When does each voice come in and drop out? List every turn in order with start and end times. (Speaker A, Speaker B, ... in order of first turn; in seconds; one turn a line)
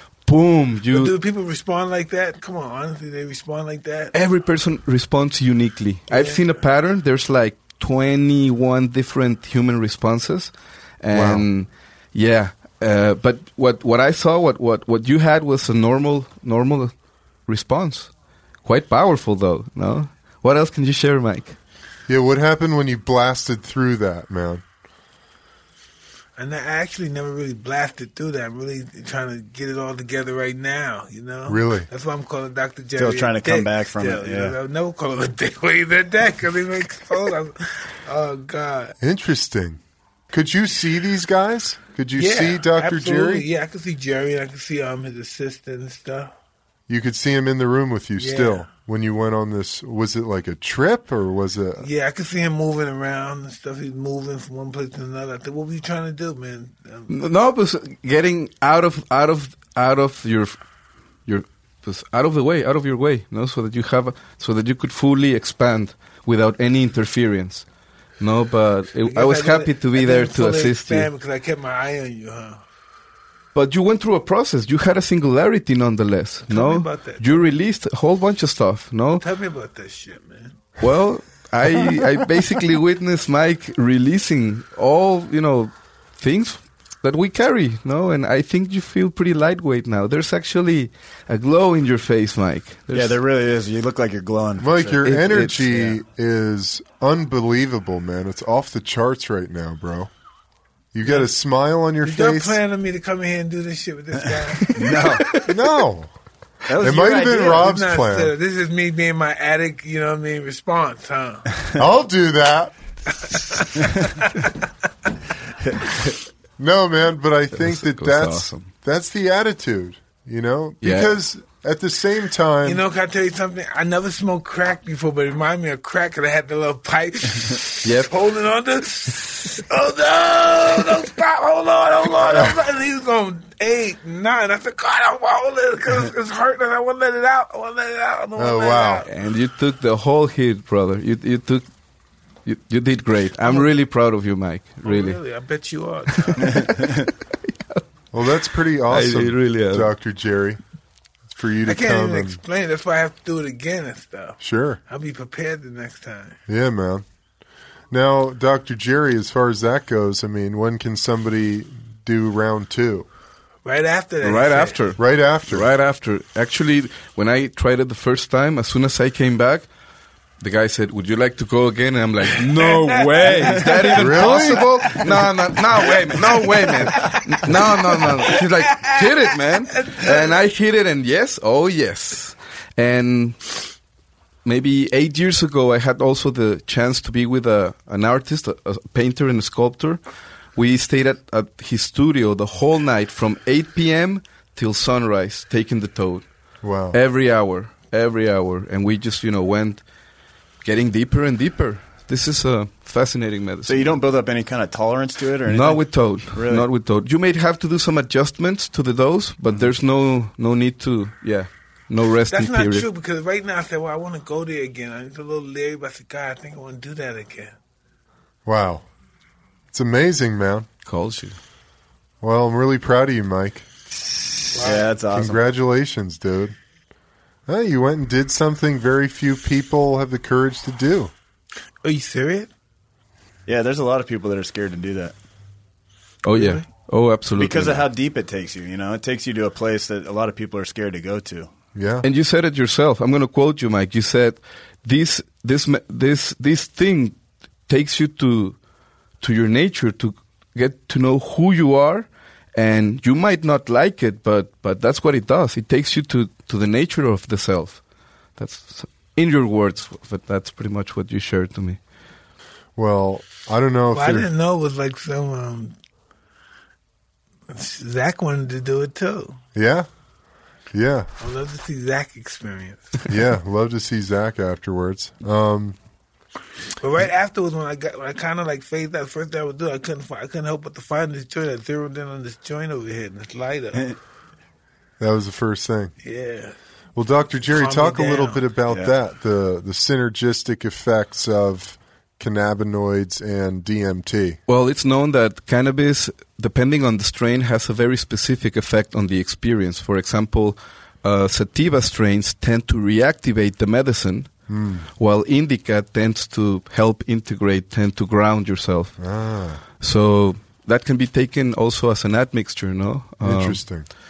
Speaker A: 0.3-1.1
Speaker B: 0.9-4.1
Speaker A: 4.1-16.9
Speaker B: 6.1-6.4
Speaker C: 11.1-11.4
Speaker A: 17.5-18.1
Speaker A: 18.6-21.6
Speaker C: 22.1-24.6
Speaker B: 26.4-38.9
Speaker C: 31.5-31.9
Speaker D: 33.0-34.5
Speaker C: 39.0-39.8
Speaker C: 40.3-43.4
Speaker B: 42.2-46.3
Speaker C: 46.9-51.9
Speaker B: 48.2-48.6
Speaker B: 51.8-57.1
Speaker A: 57.1-60.6
Speaker A: 61.3-67.6
Speaker A: 68.2-71.1
Speaker B: 69.0-72.6
Speaker A: 73.5-79.2
Speaker B: 76.5-77.5
Speaker B: 79.2-80.6
Speaker A: 80.8-93.2
Speaker D: 92.9-95.0
Speaker C: 94.6-100.1
Speaker A: 95.0-95.7
Speaker C: 100.9-102.6
Speaker B: 102.0-105.5
Speaker A: 104.7-105.4
Speaker D: 104.8-105.2
Speaker C: 105.4-106.1
Speaker D: 106.7-107.6
Speaker C: 106.7-108.3
Speaker B: 107.0-111.5
Speaker C: 111.7-112.7
Speaker B: 113.2-114.6
Speaker D: 113.8-114.1
Speaker C: 116.6-122.8
Speaker A: 117.5-118.7
Speaker A: 120.8-121.1
Speaker B: 122.6-139.1
Speaker A: 127.8-128.1
Speaker C: 132.3-132.5
Speaker C: 138.4-139.0
Speaker A: 139.1-141.7
Speaker A: 142.4-145.2
Speaker B: 143.4-143.7
Speaker B: 144.8-146.8
Speaker A: 146.3-146.6
Speaker D: 146.4-147.1
Speaker C: 148.1-150.6
Speaker A: 148.9-149.9
Speaker C: 151.3-152.4
Speaker B: 151.6-156.4
Speaker C: 154.4-154.8
Speaker C: 156.5-157.0
Speaker C: 157.9-163.1
Speaker B: 163.6-164.7
Speaker A: 164.2-169.7
Speaker C: 165.0-165.7
Speaker A: 170.4-183.6
Speaker B: 172.5-173.9
Speaker C: 173.9-175.2
Speaker B: 176.6-179.0
Speaker B: 179.7-180.2
Speaker A: 184.4-190.0
Speaker A: 190.6-196.2
Speaker C: 196.6-197.0
Speaker A: 196.9-199.8
Speaker A: 200.6-203.9
Speaker D: 203.7-206.7
Speaker A: 205.5-212.8
Speaker B: 212.3-217.5
Speaker C: 218.4-218.8
Speaker C: 219.7-220.7
Speaker A: 220.8-221.4
Speaker C: 222.2-223.7
Speaker B: 224.5-224.9
Speaker D: 224.6-225.4
Speaker C: 225.1-226.6
Speaker C: 227.5-231.1
Speaker B: 231.8-232.5
Speaker D: 233.5-235.1
Speaker A: 236.2-237.8
Speaker B: 236.3-236.6
Speaker D: 237.4-241.5
Speaker C: 241.7-242.1
Speaker A: 242.0-247.2
Speaker A: 247.7-248.6
Speaker A: 249.2-257.8
Speaker A: 258.4-261.8
Speaker C: 262.8-264.3
Speaker B: 263.9-265.8
Speaker B: 267.5-269.4
Speaker C: 269.5-269.9
Speaker C: 270.7-271.1
Speaker B: 271.2-273.0
Speaker C: 273.1-275.8
Speaker B: 276.8-283.9
Speaker C: 285.0-285.9
Speaker B: 286.0-286.5
Speaker C: 286.9-294.4
Speaker B: 287.5-288.4
Speaker A: 294.5-304.3
Speaker C: 304.5-304.9
Speaker A: 305.0-308.9
Speaker C: 309.0-309.6
Speaker A: 309.8-313.6
Speaker C: 313.2-313.9